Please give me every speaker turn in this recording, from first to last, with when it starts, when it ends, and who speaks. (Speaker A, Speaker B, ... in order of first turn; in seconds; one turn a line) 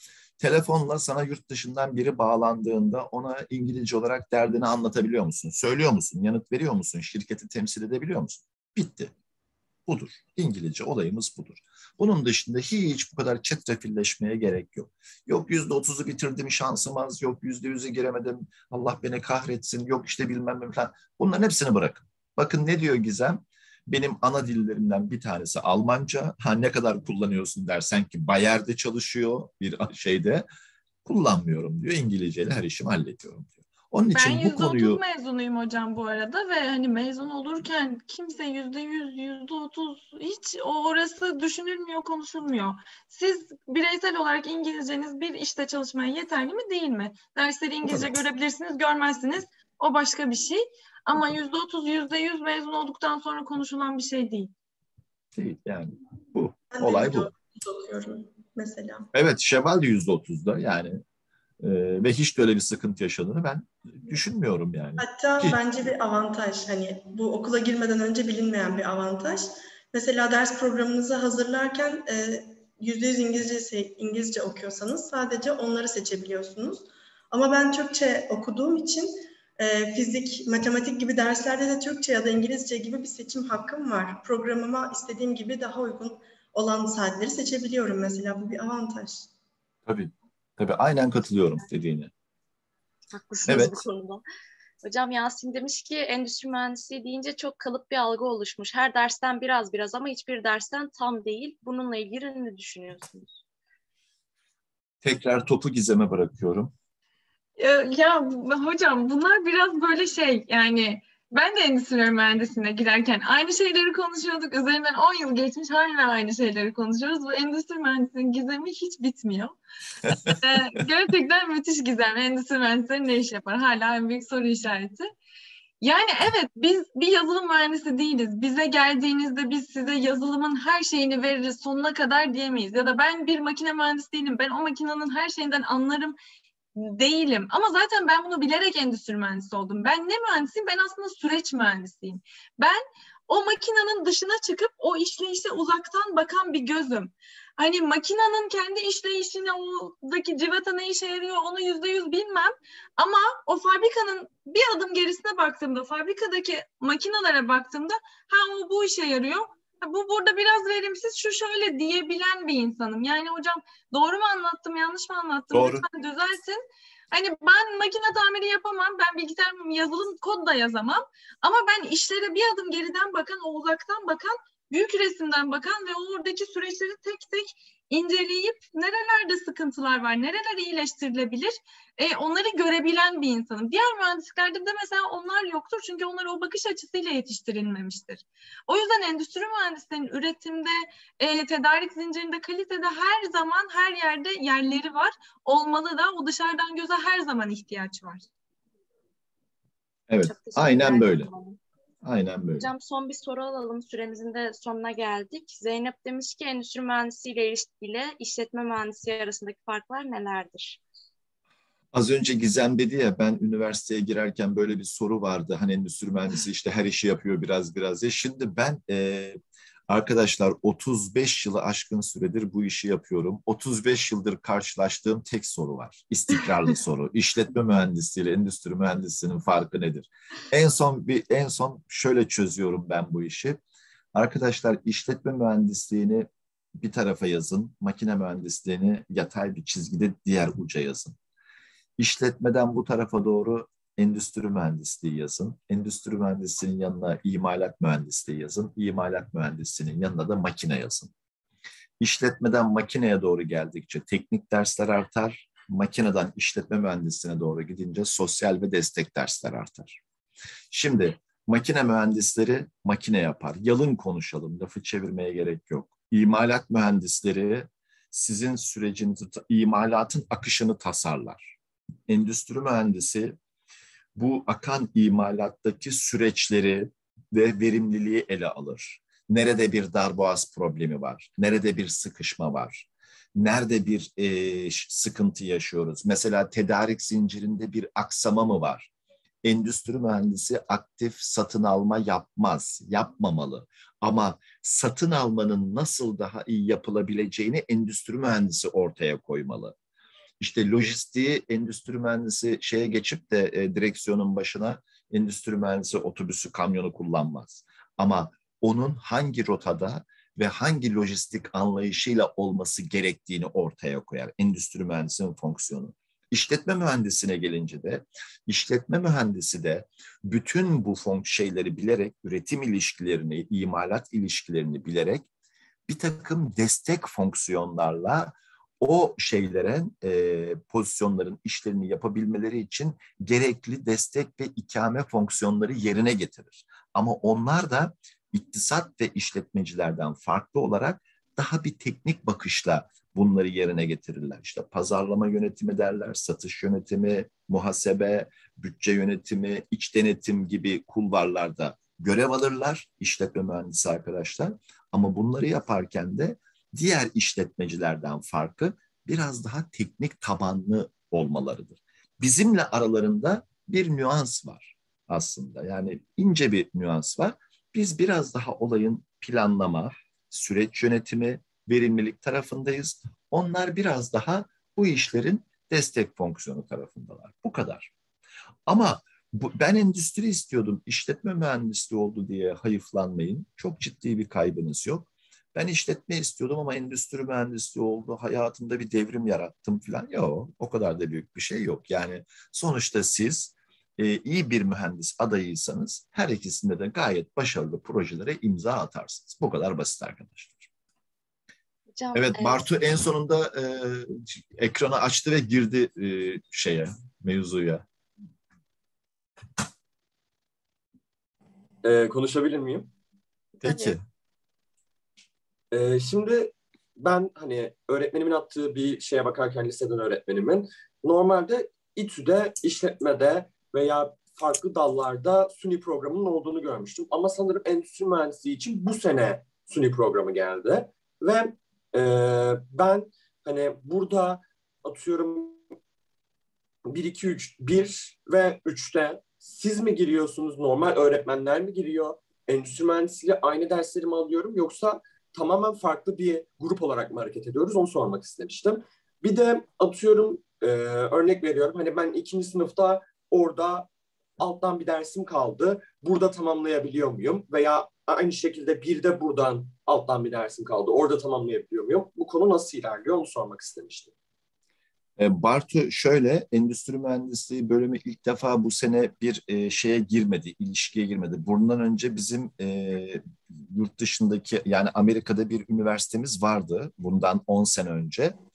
Speaker A: 0.4-9.1
Speaker A: 9.9-30.5
Speaker A: 31.1-35.0
Speaker B: 34.1-54.5
Speaker A: 47.8-48.2
Speaker A: 55.4-57.3
Speaker C: 56.7-59.1
Speaker A: 59.1-61.0
Speaker A: 61.6-65.9
Speaker C: 65.0-89.3
Speaker A: 89.9-92.1
Speaker D: 93.1-94.2
Speaker A: 93.5-93.8
Speaker D: 94.8-103.3
Speaker A: 105.0-106.7
Speaker B: 107.6-119.5
Speaker A: 120.1-120.3
Speaker B: 120.1-125.1
Speaker B: 125.8-136.2
Speaker B: 136.8-198.3
Speaker A: 165.5-165.8
Speaker A: 200.1-201.3
Speaker D: 200.2-201.6
Speaker A: 202.0-202.7
Speaker D: 202.6-210.8
Speaker A: 211.9-233.6
Speaker A: 234.1-236.3
Speaker A: 236.8-241.2
Speaker A: 242.0-251.1
Speaker A: 252.0-260.0
Speaker A: 260.7-271.5
Speaker A: 272.1-273.4
Speaker A: 274.2-288.9
Speaker A: 289.4-299.8
Speaker A: 300.4-325.3
Speaker A: 325.9-377.9
Speaker A: 378.7-400.7
Speaker D: 401.9-402.7
Speaker A: 402.1-407.9
Speaker E: 411.8-412.9
Speaker A: 413.6-414.0
Speaker D: 413.7-413.9
Speaker E: 415.7-435.6
Speaker E: 436.9-453.9
Speaker E: 454.4-464.1
Speaker A: 465.2-478.4